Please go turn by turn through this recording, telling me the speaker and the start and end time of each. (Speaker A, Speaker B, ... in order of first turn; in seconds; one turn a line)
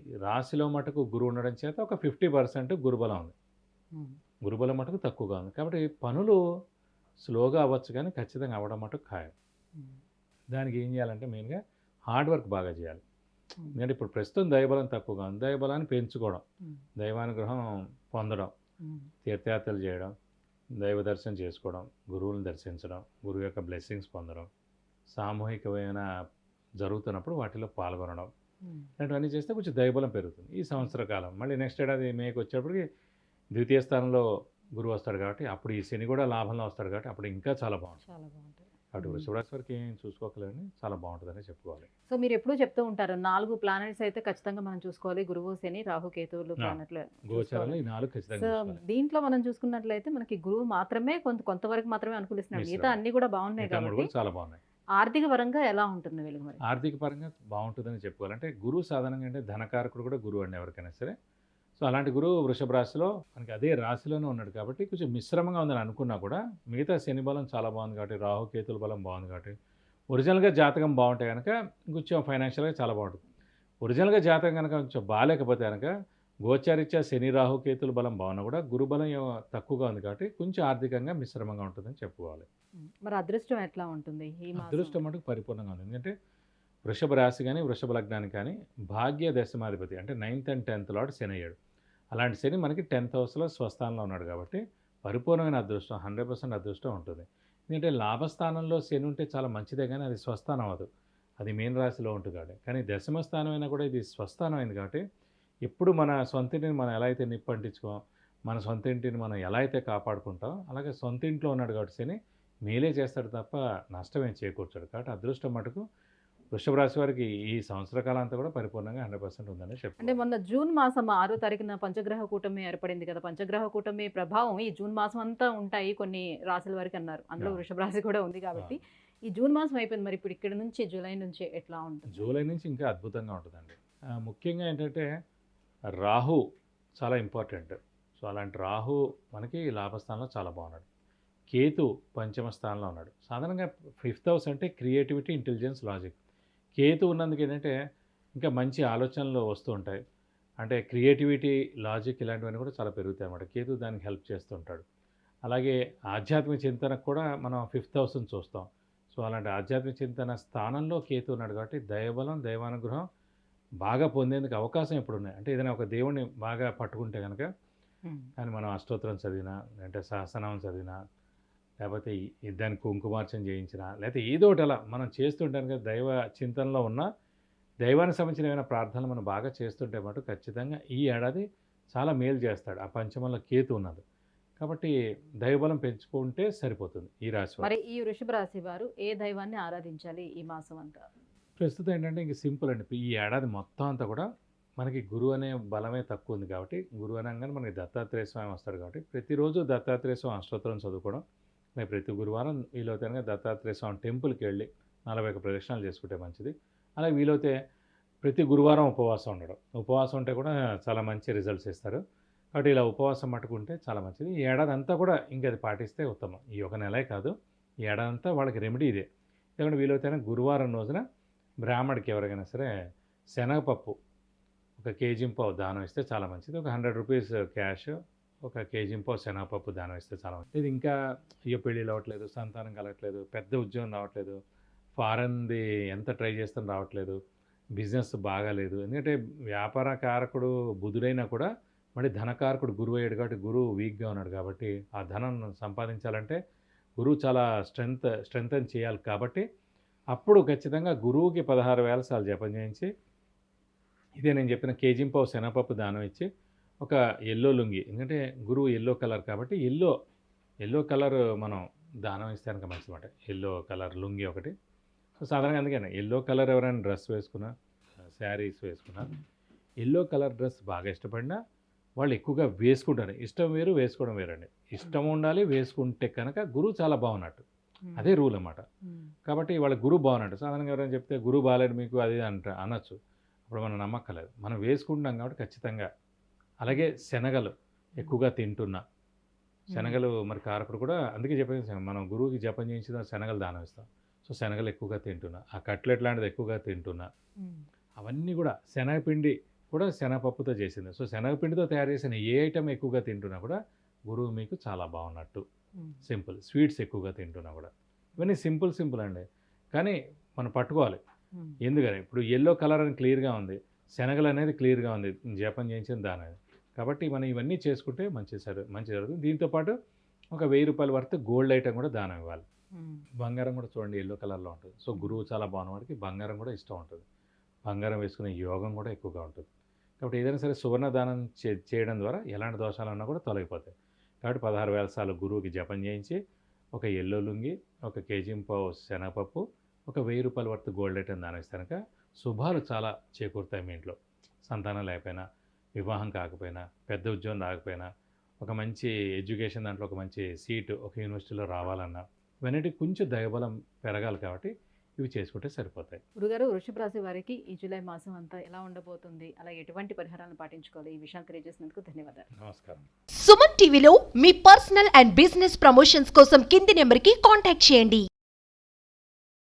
Speaker A: 0.2-3.3
Speaker A: 4.4-6.4
Speaker A: 7.2-9.3
Speaker A: 10.5-13.0
Speaker A: 13.7-16.4
Speaker A: 17.0-18.5
Speaker B: 18.8-19.1
Speaker A: 19.2-20.1
Speaker A: 20.8-24.5
Speaker A: 25.1-26.0
Speaker A: 26.8-28.3
Speaker B: 28.6-28.9
Speaker A: 29.0-32.8
Speaker A: 33.5-34.2
Speaker A: 34.8-38.0
Speaker B: 38.0-39.3
Speaker A: 38.9-41.9
Speaker B: 42.1-47.8
Speaker A: 46.6-48.8
Speaker B: 48.3-54.1
Speaker A: 52.5-53.0
Speaker A: 53.6-54.6
Speaker B: 55.0-56.6
Speaker A: 56.6-61.1
Speaker A: 61.8-69.5
Speaker A: 70.1-73.2
Speaker A: 73.8-75.9
Speaker A: 76.4-82.5
Speaker B: 82.8-85.0
Speaker A: 84.5-86.1
Speaker A: 86.9-91.5
Speaker A: 92.1-100.9
Speaker A: 101.4-105.0
Speaker A: 105.7-115.8
Speaker A: 116.5-120.2
Speaker B: 120.0-132.2
Speaker A: 132.1-135.1
Speaker A: 136.0-136.4
Speaker A: 137.0-140.8
Speaker A: 141.5-146.2
Speaker A: 146.8-147.7
Speaker A: 148.3-150.0
Speaker A: 150.6-154.8
Speaker A: 155.5-163.0
Speaker A: 163.8-167.4
Speaker A: 168.4-170.9
Speaker A: 171.8-177.1
Speaker A: 177.8-184.0
Speaker A: 184.6-187.7
Speaker B: 187.6-191.0
Speaker A: 191.6-194.3
Speaker A: 194.8-201.2
Speaker A: 201.8-207.5
Speaker A: 208.2-212.0
Speaker A: 212.5-217.3
Speaker A: 217.8-219.1
Speaker A: 219.6-221.0
Speaker A: 221.6-222.7
Speaker A: 223.3-223.9
Speaker A: 224.8-230.9
Speaker A: 231.5-234.4
Speaker A: 235.0-237.2
Speaker A: 237.8-246.4
Speaker A: 247.0-249.4
Speaker A: 250.1-252.9
Speaker A: 254.2-256.3
Speaker A: 256.8-259.9
Speaker A: 260.6-264.5
Speaker A: 265.2-267.5
Speaker A: 268.1-269.1
Speaker A: 269.8-271.4
Speaker A: 272.0-277.4
Speaker B: 277.8-278.1
Speaker A: 278.0-278.6
Speaker B: 278.9-279.1
Speaker A: 279.3-282.9
Speaker A: 283.5-285.9
Speaker A: 286.6-288.8
Speaker B: 289.7-290.0
Speaker A: 289.7-297.1
Speaker A: 298.0-305.4
Speaker A: 306.0-311.0
Speaker A: 311.6-319.7
Speaker A: 320.3-322.4
Speaker B: 322.7-323.0
Speaker A: 323.2-327.0
Speaker A: 327.6-329.4
Speaker A: 330.0-333.7
Speaker A: 334.2-336.2
Speaker A: 336.8-345.2
Speaker A: 345.8-347.9
Speaker A: 348.4-356.0
Speaker B: 356.2-362.3
Speaker A: 362.4-362.9
Speaker C: 363.1-368.1